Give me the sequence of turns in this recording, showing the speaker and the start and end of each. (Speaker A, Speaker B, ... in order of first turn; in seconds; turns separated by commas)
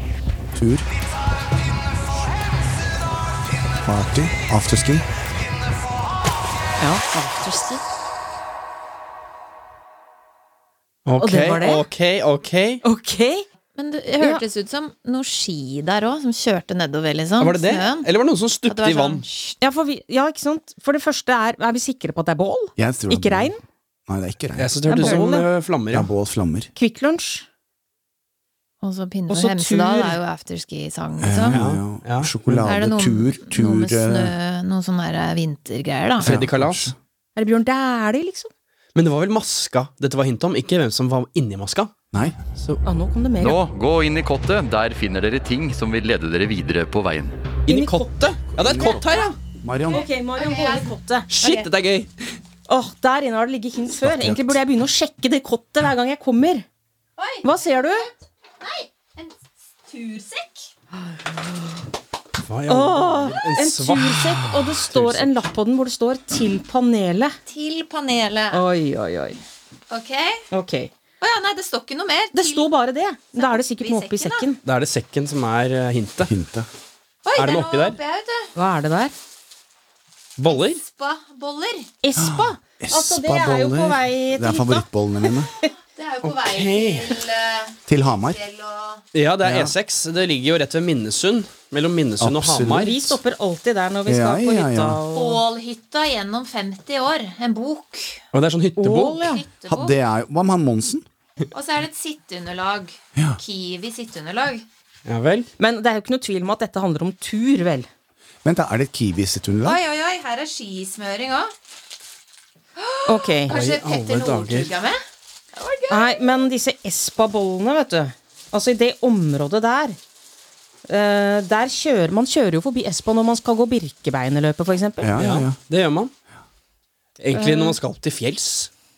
Speaker A: 0.5-0.8, Speaker A: 3.8-5.0, Speaker B: 6.8-7.8, Speaker C: 11.1-12.8, Speaker B: 11.2-11.8, Speaker B: 12.8-13.4, Speaker D: 13.7-18.1, Speaker C: 17.4-19.2, Speaker D: 18.6-19.6, Speaker B: 19.6-23.6, Speaker A: 22.8-23.5, Speaker A: 24.1-25.2, Speaker C: 24.6-26.1, Speaker B: 24.9-25.4, Speaker A: 25.9-26.7, Speaker B: 26.8-27.4, Speaker D: 28.8-31.6, Speaker B: 29.3-30.2, Speaker A: 31.2-34.3, Speaker C: 31.5-32.7, Speaker D: 32.6-36.4, Speaker A: 36.2-37.0, Speaker C: 36.2-36.9, Speaker B: 37.4-38.5, Speaker C: 38.9-41.9, Speaker B: 42.8-43.6, Speaker E: 43.4-47.3, Speaker C: 47.6-49.4, Speaker B: 47.7-48.1, Speaker A: 48.5-50.0, Speaker B: 49.9-51.6, Speaker D: 49.9-50.9, Speaker C: 51.3-52.1, Speaker B: 52.7-56.6, Speaker A: 54.0-54.6, Speaker D: 57.2-57.4, Speaker B: 57.4-58.0, Speaker D: 58.6-59.3, Speaker D: 59.9-60.7, Speaker B: 60.9-61.8, Speaker C: 62.5-65.3, Speaker B: 62.7-67.3, Speaker D: 67.5-68.6, Speaker B: 68.5-69.4, Speaker D: 69.9-70.4, Speaker B: 70.5-70.9, Speaker D: 71.2-72.7, Speaker B: 72.3-74.6, Speaker D: 73.3-74.5, Speaker C: 74.6-76.3, Speaker A: 76.3-76.7, Speaker D: 77.2-78.5, Speaker C: 77.4-78.0, Speaker B: 78.5-79.1, Speaker C: 80.4-80.8, Speaker D: 80.5-81.9, Speaker B: 82.0-85.7, Speaker A: 82.2-85.5, Speaker D: 85.9-89.0, Speaker C: 86.2-87.2, Speaker A: 87.9-88.4, Speaker C: 89.1-93.2, Speaker A: 89.4-89.7, Speaker A: 92.2-92.9, Speaker B: 92.7-95.4, Speaker A: 94.0-95.0, Speaker D: 95.1-98.2, Speaker C: 98.3-99.3, Speaker B: 98.8-99.4, Speaker D: 99.2-99.9, Speaker A: 99.7-101.0, Speaker D: 101.5-104.6, Speaker C: 105.0-105.5, Speaker B: 105.6-107.9, Speaker A: 108.4-109.8, Speaker D: 109.6-111.5, Speaker D: 112.8-115.0, Speaker B: 113.1-113.5, Speaker C: 113.5-114.7, Speaker D: 115.5-116.4, Speaker B: 115.9-120.0, Speaker B: 120.9-125.1, Speaker A: 125.0-125.6, Speaker C: 125.2-126.1, Speaker C: 127.2-128.7